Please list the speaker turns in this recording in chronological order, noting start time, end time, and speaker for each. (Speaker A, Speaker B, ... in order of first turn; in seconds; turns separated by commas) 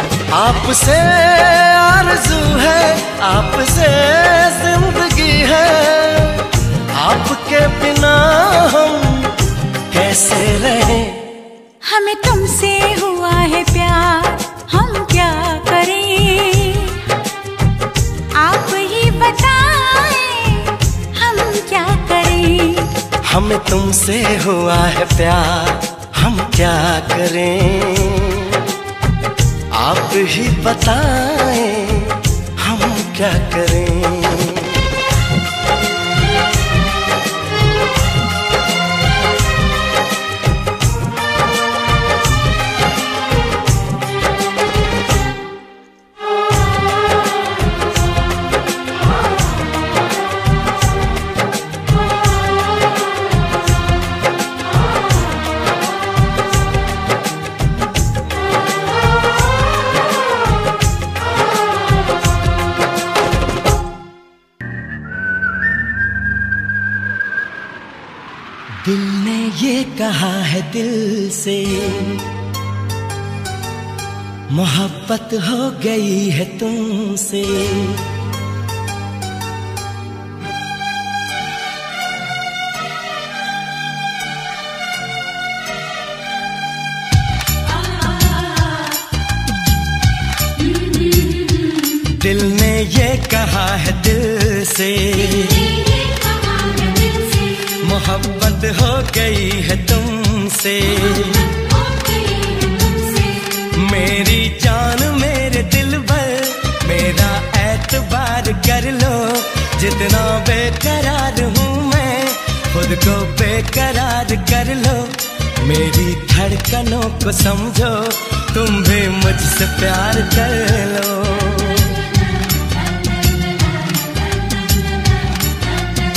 Speaker A: 0.3-9.3, Speaker A: 9.9-11.2, Speaker B: 11.8-17.0, Speaker B: 18.3-22.9, Speaker A: 23.2-28.6, Speaker A: 29.8-34.8, Speaker A: 68.8-72.2, Speaker A: 74.5-78.0, Speaker A: 92.2-95.7, Speaker B: 95.6-97.7, Speaker A: 97.8-101.5, Speaker B: 101.9-103.3, Speaker A: 103.7-121.9